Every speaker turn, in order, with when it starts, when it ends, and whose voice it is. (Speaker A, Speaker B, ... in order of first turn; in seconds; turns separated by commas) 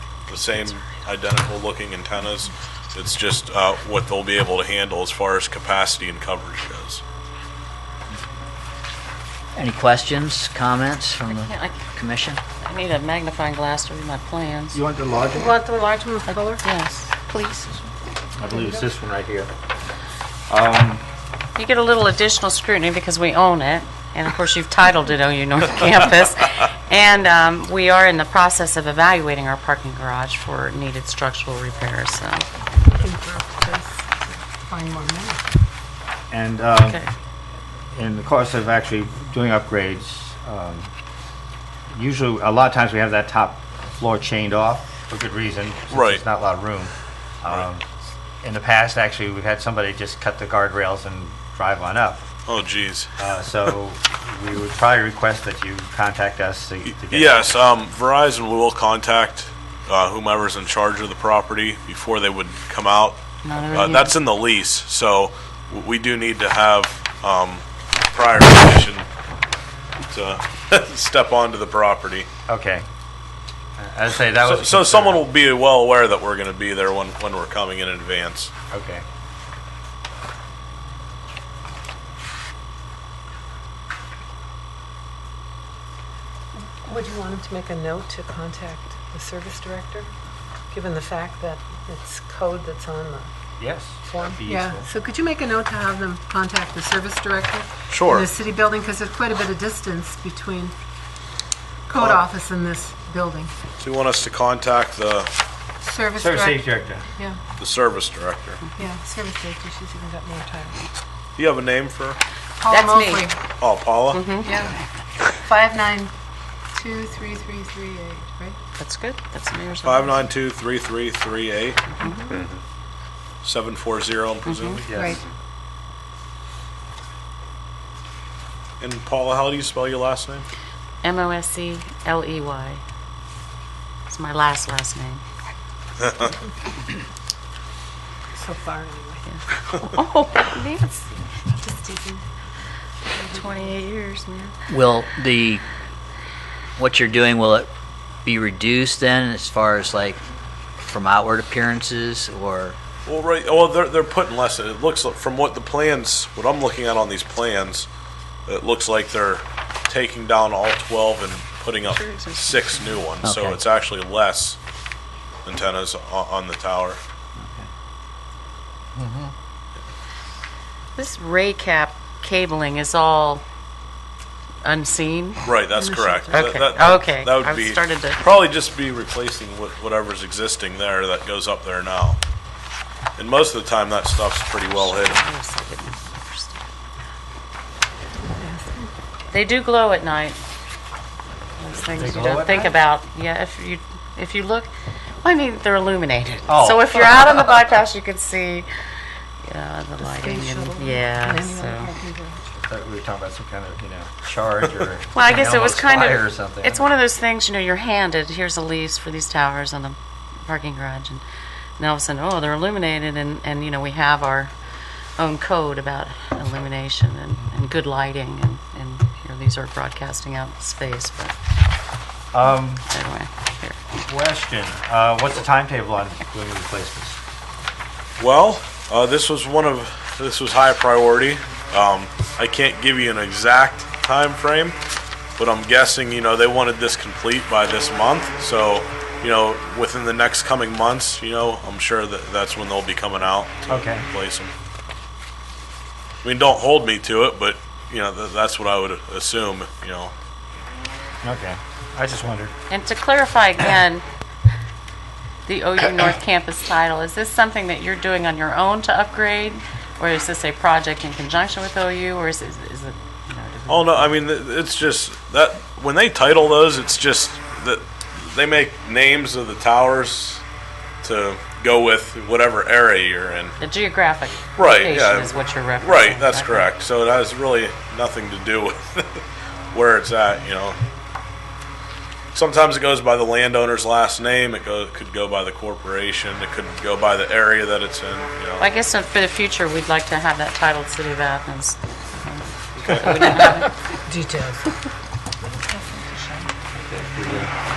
Speaker A: 0.3-7.0, Speaker B: 9.6-12.3, Speaker C: 11.3-11.8, Speaker C: 12.6-14.8, Speaker D: 14.7-15.6, Speaker E: 15.3-16.6, Speaker C: 16.3-17.6, Speaker D: 18.4-19.5, Speaker E: 18.4-18.8, Speaker D: 20.5-21.0, Speaker C: 21.6-32.5, Speaker E: 32.9-35.5, Speaker D: 36.3-37.0, Speaker C: 36.8-37.1, Speaker D: 37.9-40.9, Speaker D: 41.9-52.2, Speaker A: 45.9-46.2, Speaker A: 52.5-53.1, Speaker D: 53.2-57.7, Speaker A: 56.9-69.1, Speaker C: 63.4-64.1, Speaker A: 70.1-72.3, Speaker D: 72.5-72.9, Speaker D: 73.8-75.3, Speaker A: 74.3-78.5, Speaker D: 78.7-79.0, Speaker E: 86.7-90.1, Speaker E: 90.7-93.3, Speaker D: 93.6-94.9, Speaker E: 94.0-100.7, Speaker A: 97.9-98.3, Speaker E: 101.9-103.5, Speaker A: 101.9-102.2, Speaker A: 103.8-105.3, Speaker E: 105.8-107.4, Speaker D: 106.2-107.1, Speaker A: 107.6-108.6, Speaker E: 108.8-110.8, Speaker A: 111.3-112.2, Speaker E: 112.6-113.4, Speaker C: 112.7-113.3, Speaker A: 113.6-114.3, Speaker C: 114.1-114.7, Speaker E: 114.4-114.7, Speaker E: 115.4-116.1, Speaker E: 116.7-118.6, Speaker C: 118.8-120.2, Speaker A: 119.8-121.8, Speaker C: 121.9-122.2, Speaker E: 122.0-122.4, Speaker A: 123.4-124.8, Speaker C: 124.4-124.8, Speaker D: 124.8-125.2, Speaker E: 124.9-125.2, Speaker A: 128.8-130.4, Speaker C: 131.0-132.8, Speaker C: 134.1-135.2, Speaker A: 136.0-136.3, Speaker E: 138.3-139.2, Speaker C: 139.3-141.1, Speaker E: 141.5-142.2, Speaker E: 143.1-143.7, Speaker C: 143.2-144.5, Speaker B: 144.7-145.6, Speaker B: 146.8-147.7, Speaker B: 148.2-150.2, Speaker B: 150.8-152.7, Speaker A: 153.1-157.9, Speaker A: 158.4-164.6, Speaker C: 161.8-163.0, Speaker B: 163.2-163.5, Speaker A: 165.4-167.0, Speaker D: 167.4-167.7, Speaker D: 168.9-169.3, Speaker C: 170.9-173.4, Speaker C: 174.6-175.4, Speaker A: 175.4-182.2, Speaker E: 175.7-176.6, Speaker C: 176.3-178.3, Speaker A: 183.2-185.2, Speaker C: 184.7-186.6, Speaker E: 188.3-188.9, Speaker C: 189.3-190.4, Speaker C: 191.6-194.7, Speaker D: 191.9-192.7, Speaker C: 195.2-198.7, Speaker D: 196.5-197.4, Speaker C: 199.4-201.9, Speaker E: 200.0-202.6, Speaker D: 202.6-206.9, Speaker C: 205.1-211.2, Speaker C: 211.8-214.5, Speaker C: 215.2-221.3, Speaker D: 222.3-222.8, Speaker C: 222.8-223.8, Speaker D: 223.9-227.2, Speaker A: 228.2-234.8, Speaker A: 235.4-244.5, Speaker D: 243.7-244.1, Speaker A: 246.2-250.1, Speaker D: 251.2-252.5, Speaker C: 252.7-254.0, Speaker C: 255.4-264.1, Speaker A: 263.7-270.4, Speaker A: 271.0-273.6, Speaker C: 273.6-276.7, Speaker A: 274.6-280.8, Speaker A: 282.3-288.6, Speaker C: 288.6-293.7, Speaker A: 292.8-293.2, Speaker E: 294.1-294.7, Speaker E: 295.4-296.5, Speaker D: 296.7-297.5